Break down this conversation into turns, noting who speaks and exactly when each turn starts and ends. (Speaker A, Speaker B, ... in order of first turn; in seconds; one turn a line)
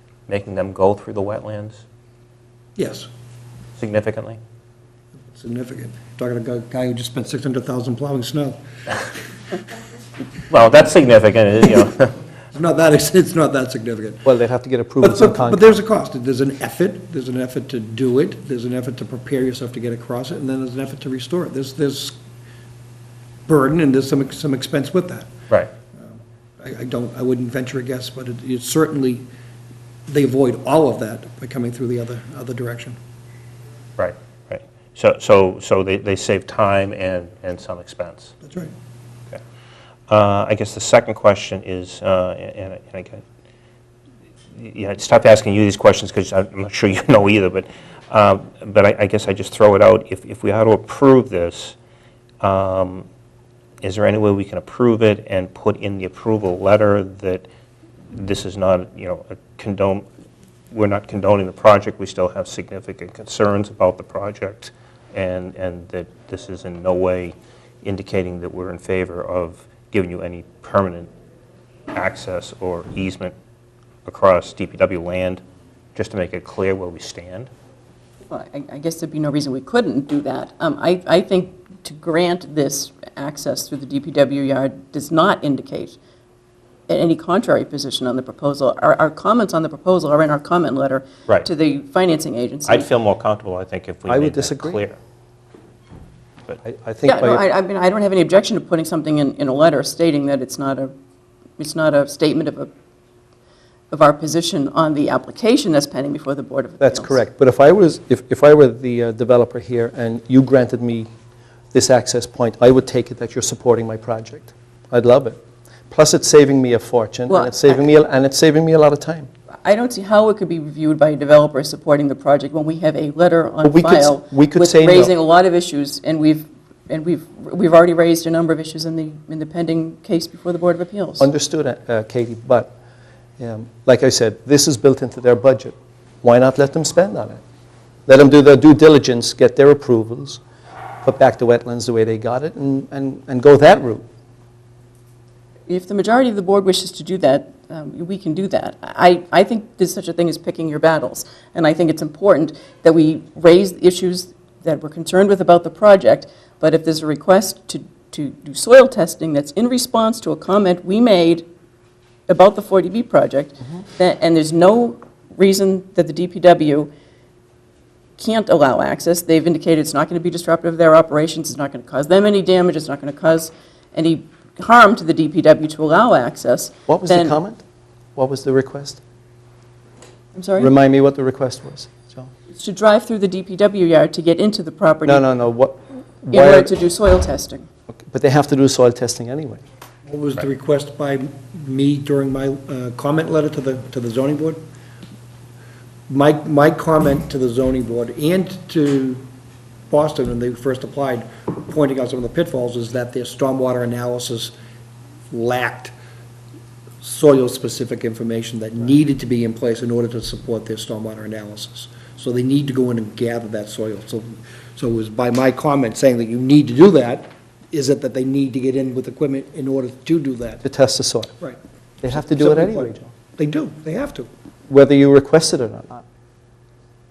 Speaker A: 0.3-1.8
Speaker B: 2.8-3.1
Speaker A: 3.8-4.4
Speaker B: 5.3-8.6
Speaker A: 10.5-12.1
Speaker B: 12.5-14.2
Speaker C: 14.2-15.6
Speaker B: 15.0-22.2
Speaker B: 23.5-25.3
Speaker B: 26.0-29.2
Speaker B: 30.1-33.0
Speaker A: 34.0-38.3
Speaker B: 38.4-38.7
Speaker A: 40.1-43.2
Speaker A: 44.5-51.8
Speaker A: 52.4-53.1
Speaker A: 53.8-57.5
Speaker A: 58.1-60.0
Speaker A: 60.7-71.1
Speaker A: 71.9-73.3
Speaker A: 74.0-75.4
Speaker A: 75.9-77.5
Speaker D: 78.3-86.0
Speaker D: 86.9-92.9
Speaker A: 92.6-95.0
Speaker C: 94.1-94.8
Speaker C: 96.6-97.4
Speaker D: 97.0-100.9
Speaker D: 101.6-102.7
Speaker D: 103.9-107.2
Speaker C: 106.8-111.1
Speaker C: 111.7-119.3
Speaker D: 117.3-117.8
Speaker D: 119.6-131.3
Speaker C: 123.6-125.1
Speaker C: 131.2-132.7
Speaker C: 133.4-137.4
Speaker C: 138.1-140.4
Speaker C: 141.0-144.0
Speaker D: 145.7-161.4
Speaker D: 162.3-166.9
Speaker D: 168.2-177.3
Speaker C: 176.9-177.6
Speaker C: 178.2-179.0
Speaker D: 180.3-180.7
Speaker C: 180.6-182.3
Speaker D: 182.5-185.3
Speaker C: 185.1-186.7
Speaker D: 186.3-187.7
Speaker C: 188.1-189.6
Speaker B: 190.1-194.6
Speaker B: 196.1-199.2
Speaker B: 199.9-204.5
Speaker B: 205.3-205.9
Speaker B: 207.0-220.6
Speaker C: 220.6-221.4
Speaker C: 222.0-223.1
Speaker B: 222.1-224.3
Speaker C: 224.7-226.0